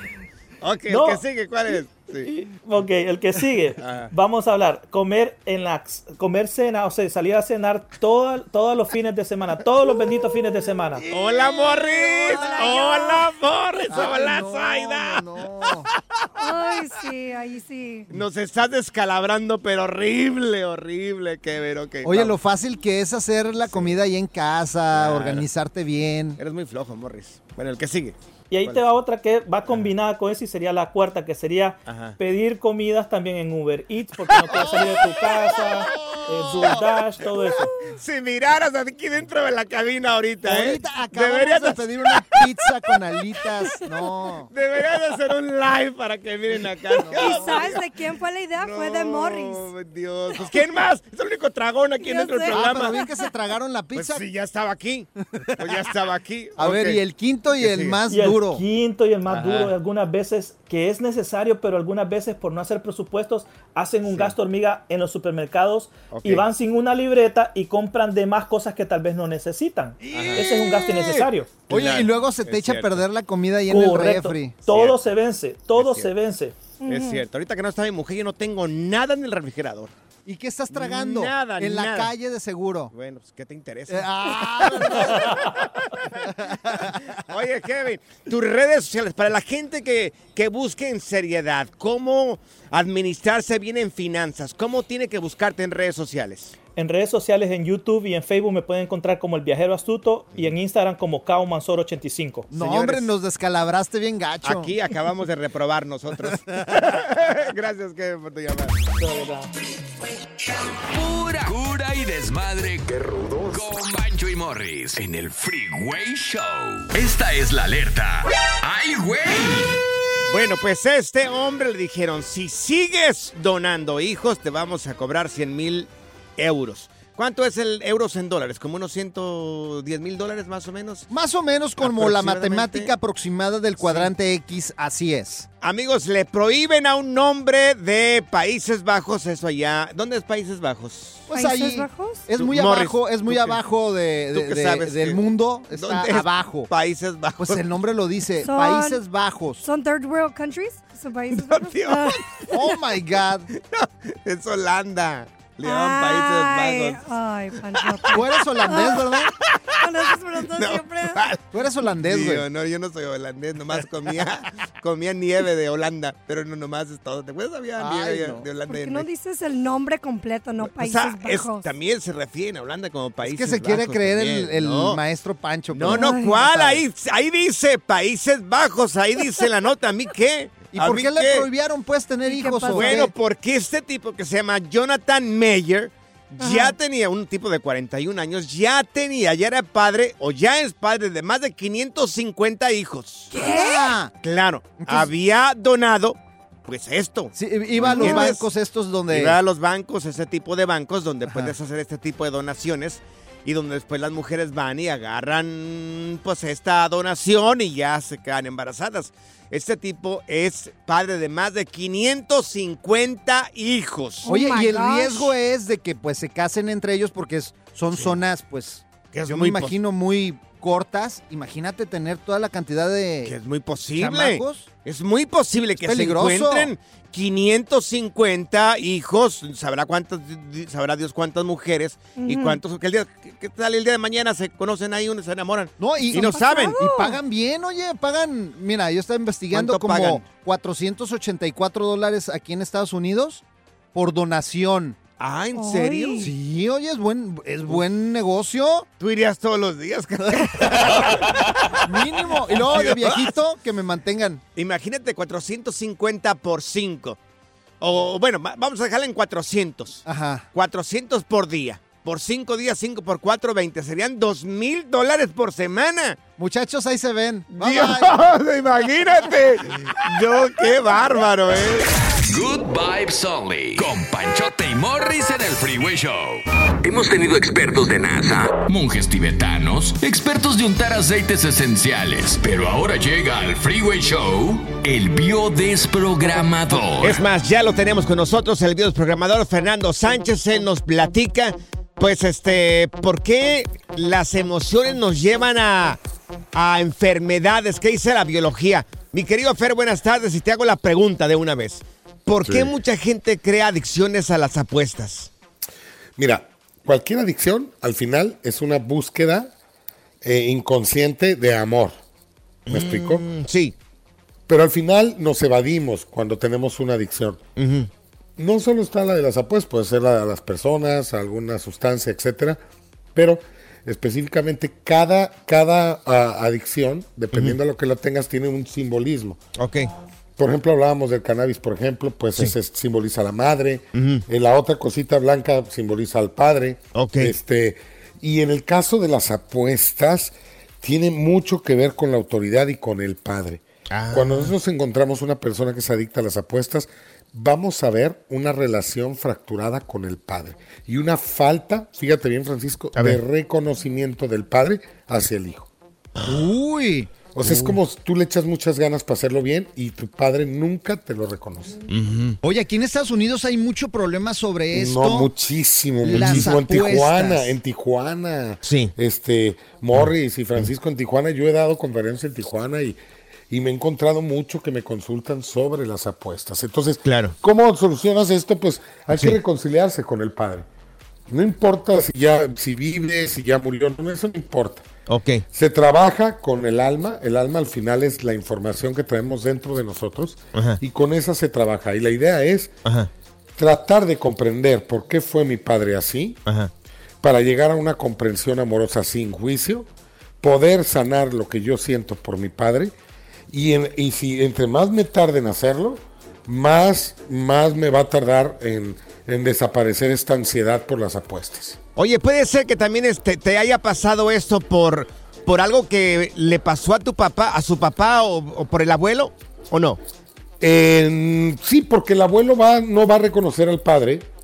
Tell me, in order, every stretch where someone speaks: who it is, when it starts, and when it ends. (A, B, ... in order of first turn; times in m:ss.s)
0:00.6-0:02.3 A
0:00.9-0:01.2 B
0:02.2-0:11.0 B
0:03.8-0:04.1 A
0:11.0-0:16.5 A
0:11.1-0:12.9 C
0:11.6-0:13.2 D
0:13.9-0:15.9 C
0:16.4-0:18.1 D
0:18.1-0:22.4 A
0:22.0-0:26.4 C
0:23.6-0:24.0 A
0:24.9-0:25.5 A
0:26.4-0:28.8 A
0:28.5-0:37.7 B
0:31.8-0:32.2 A
0:34.3-0:36.8 A
0:37.8-0:42.5 A
0:40.4-0:44.5 C
0:44.5-0:47.9 A
0:46.9-0:47.8 C
0:47.1-0:49.7 D
0:48.5-0:53.0 A
0:52.0-0:53.1 D
0:52.5-0:54.2 C
0:53.9-0:57.0 A
0:55.3-0:55.8 C
0:56.6-0:58.6 C
0:57.6-0:58.0 A
0:58.1-1:11.5 B
0:59.3-0:59.7 A
1:04.0-1:04.3 A
1:06.1-1:06.4 A
1:10.1-1:13.0 A
1:10.2-1:10.4 C
1:11.7-1:14.5 C
1:13.7-1:16.6 B
1:14.7-1:15.0 A
1:15.7-1:16.1 A
1:16.8-1:17.2 D
1:16.8-1:19.9 A
1:20.2-1:22.9 C
1:20.7-1:22.1 A
1:22.9-1:36.5 A
1:23.9-1:25.4 C
1:26.2-1:27.1 C
1:36.8-1:42.5 B
1:42.5-1:44.7 C
1:42.5-1:43.1 A
1:44.4-1:48.8 A
1:49.0-1:49.5 B
1:50.5-1:59.8 E
2:00.3-2:11.1 A
2:11.1-2:15.5 C
2:11.8-2:12.9 A
2:13.8-2:14.1 A
2:15.6-2:21.3 A
2:21.3-2:26.7 C
2:21.3-2:22.2 D
2:22.4-2:23.6 A
2:24.3-2:27.6 A
2:27.4-2:29.6 C
2:28.4-2:29.0 D
2:29.6-2:32.8 D
2:31.3-2:32.3 A
2:32.5-2:33.5 C
2:33.5-2:37.0 A
2:35.6-2:39.1 D
2:37.7-2:49.1 A
2:38.1-2:39.3 C
2:39.7-2:41.3 D
2:41.5-2:42.4 C
2:47.8-2:48.5 C
2:48.6-2:51.6 D
2:50.6-2:55.0 A
2:53.2-2:56.8 C
2:55.7-3:01.5 A
2:55.8-2:56.4 D
3:00.7-3:03.1 C
3:02.2-3:03.1 D
3:02.6-3:13.7 A
3:06.4-3:06.8 D
3:13.3-3:13.9 D
3:13.3-3:14.1 C
3:14.2-3:18.5 A
3:14.8-3:15.1 C
3:17.3-3:19.4 C
3:17.9-3:18.3 D
3:19.1-3:34.3 A
3:21.3-3:21.5 C
3:34.2-3:35.3 D
3:34.2-3:43.3 C
3:39.1-3:39.8 A
3:43.2-3:56.8 A
3:44.0-3:44.7 C
3:45.8-3:46.7 C
3:52.2-3:52.6 D
3:55.8-4:03.4 C
3:56.1-3:57.2 D
3:59.5-4:00.2 A
4:03.9-4:05.0 C
4:05.2-4:06.3 A
4:05.5-4:06.3 D
4:06.2-4:08.8 C
4:09.0-4:13.3 A
4:10.4-4:14.4 C
4:14.5-4:17.2 A
4:17.8-4:26.2 A
4:20.0-4:20.5 C
4:26.4-4:28.1 C
4:27.5-4:32.0 A
4:32.2-4:47.2 E
4:47.0-4:56.0 A
4:56.5-5:05.3 A
5:06.2-5:09.5 F
5:10.2-5:11.9 F
5:12.7-5:13.7 A
5:12.7-5:13.2 F
5:14.5-5:17.4 F
5:17.6-5:17.9 A
5:18.4-5:22.6 F
5:23.1-5:29.4 F
5:27.3-5:27.6 A
5:29.6-5:29.9 A
5:30.4-5:55.7 F
5:33.9-5:34.2 A
5:36.9-5:37.3 A
5:43.9-5:44.5 A
5:52.9-5:53.2 A
5:56.2-5:57.1 C
5:57.2-6:01.8 F
5:57.4-5:57.8 A
6:01.9-6:02.4 A
6:02.4-6:05.3 C
6:04.7-6:13.0 F
6:06.0-6:07.5 C
6:06.1-6:06.5 A
6:08.6-6:08.9 A
6:09.9-6:10.6 A
6:13.5-6:20.6 F
6:17.0-6:17.3 A
6:19.1-6:19.4 A
6:21.3-6:24.8 F
6:25.1-6:25.4 A
6:25.5-6:32.7 F
6:30.5-6:30.8 A
6:32.8-6:33.1 A
6:33.6-6:36.4 F
6:36.4-6:36.7 A
6:37.2-6:39.9 F
6:40.4-6:42.9 F
6:43.5-6:51.8 F
6:52.0-7:00.0 A
7:00.6-7:04.2 F